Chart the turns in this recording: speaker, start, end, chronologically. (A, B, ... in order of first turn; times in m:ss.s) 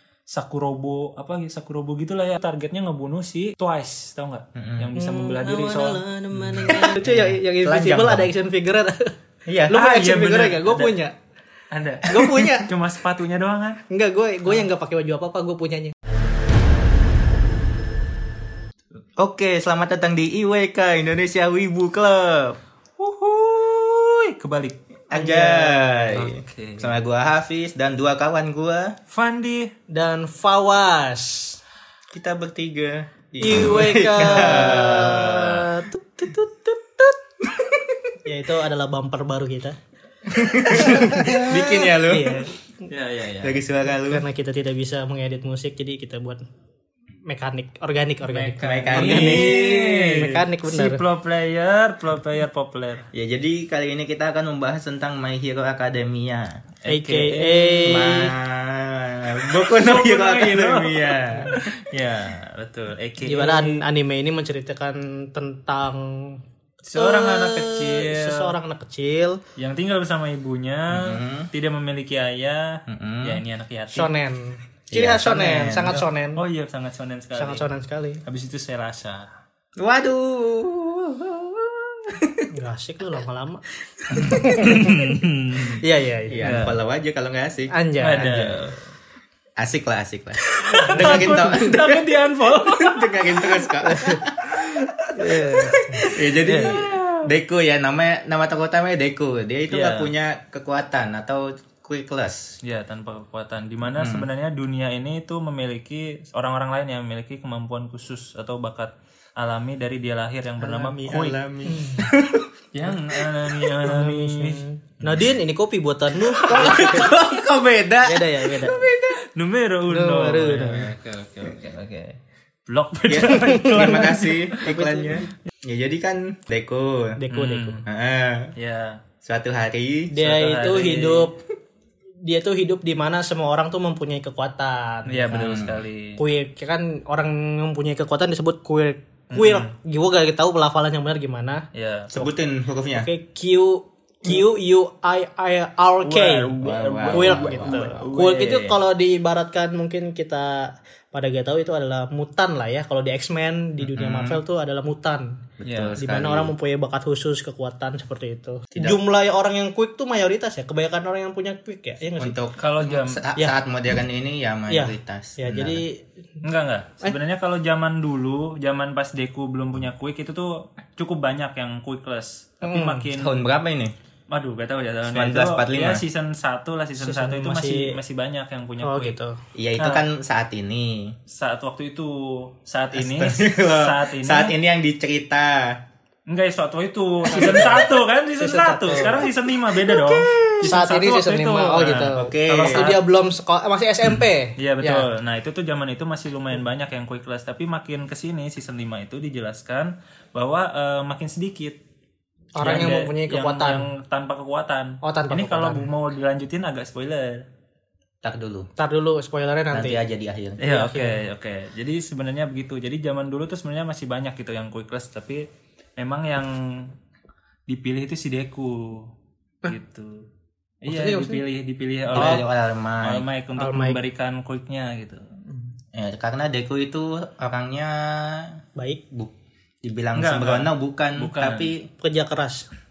0:00.3-0:06.0 A
0:04.5-0:04.9 B
0:05.0-0:09.1 C
0:06.4-0:08.3 B
0:09.4-0:09.8 B
0:09.7-0:11.1 C
0:09.7-0:10.9 A
0:11.7-0:13.8 A
0:12.0-0:12.7 C
0:13.9-0:15.9 C
0:19.2-0:22.6 B
0:23.0-0:24.8 A
0:25.1-0:29.0 B
0:25.1-0:26.0 C
0:26.1-0:27.0 A
0:29.1-0:29.7 A
0:29.9-0:31.6 C
0:32.1-0:35.5 B
0:33.4-0:37.1 C
0:34.2-0:35.8 A
0:37.5-0:37.9 B
0:38.2-0:39.8 C
0:40.3-0:42.4 B
0:40.4-0:42.5 C
0:42.9-0:43.6 A
0:43.4-0:44.2 B
0:44.0-0:46.4 C
0:47.2-0:51.0 C
0:48.3-0:53.1 A
0:48.6-0:50.3 B
0:53.1-0:56.6 B
0:56.8-0:58.2 A
0:56.9-0:58.3 C
0:57.8-1:01.7 B
0:59.4-1:03.8 A
1:03.2-1:06.4 C
1:06.8-1:08.5 A
1:06.9-1:09.4 C
1:09.6-1:14.1 A
1:10.9-1:11.5 B
1:12.9-1:13.4 B
1:13.9-1:16.4 C
1:14.9-1:16.0 B
1:16.4-1:17.6 A
1:17.4-1:18.2 C
1:18.2-1:19.3 A
1:19.8-1:22.5 B
1:22.5-1:25.1 C
1:23.9-1:24.8 B
1:24.3-1:25.8 A
1:25.8-1:26.4 C
1:26.3-1:28.7 B
1:26.4-1:26.8 A
1:27.7-1:28.3 C
1:28.0-1:28.8 A
1:29.6-1:34.9 B
1:30.6-1:33.7 A
1:30.6-1:31.7 C
1:33.8-1:34.2 C
1:34.5-1:37.3 A
1:35.1-1:36.1 C
1:36.0-1:42.6 B
1:39.7-1:40.1 A
1:42.6-1:51.4 A
1:43.9-1:44.3 B
1:50.6-1:53.7 B
1:51.6-1:52.1 C
1:52.7-1:54.6 A
1:53.8-1:57.0 C
1:55.0-1:55.3 B
1:56.3-1:57.1 A
1:56.4-1:59.2 B
1:58.0-1:58.9 C
1:59.1-2:04.7 A
1:59.9-2:00.9 C
2:03.1-2:07.2 B
2:03.3-2:05.2 C
2:07.2-2:07.8 C
2:07.3-2:07.8 A
2:07.8-2:08.5 B
2:08.6-2:09.0 A
2:09.2-2:10.1 B
2:10.1-2:11.4 C
2:10.2-2:11.3 A
2:12.2-2:15.6 C
2:15.1-2:16.2 A
2:15.4-2:15.7 B
2:16.2-2:21.6 C
2:19.3-2:19.7 A
2:21.7-2:22.1 A
2:22.1-2:23.1 B
2:22.9-2:35.4 C
2:26.0-2:28.8 A
2:26.6-2:27.9 B
2:33.8-2:34.4 B
2:35.6-2:36.5 B
2:35.6-2:36.0 A
2:36.0-2:42.4 C
2:38.7-2:39.0 B
2:42.2-2:45.8 B
2:42.6-2:43.2 A
2:44.7-2:46.0 C
2:46.4-2:53.4 A
2:52.6-2:53.0 C
2:53.2-2:53.9 B
2:54.3-2:59.2 A
2:55.1-2:56.0 B
2:57.0-2:58.0 C
2:58.8-2:59.3 C
2:59.5-3:01.2 B
2:59.8-3:00.0 A
3:01.3-3:04.5 A
3:02.9-3:05.8 B
3:06.3-3:13.0 A
3:07.3-3:09.3 C
3:07.4-3:07.7 B
3:10.1-3:10.4 B
3:10.6-3:15.1 C
3:12.1-3:12.9 B
3:14.6-3:21.8 A
3:22.6-3:23.9 C
3:22.6-3:27.4 A
3:25.0-3:25.9 C
3:28.2-3:28.7 B
3:28.8-3:30.0 C
3:29.7-3:30.6 B
3:30.6-3:35.4 A
3:30.6-3:31.2 C
3:36.0-3:36.9 A
3:37.7-3:39.1 A
3:39.6-3:40.3 A
3:40.8-3:42.5 A
3:40.9-3:41.4 C
3:42.1-3:43.2 B
3:43.0-3:45.2 A
3:43.6-3:44.0 C
3:45.9-3:51.9 B
3:50.1-3:51.7 A
3:52.0-3:52.7 C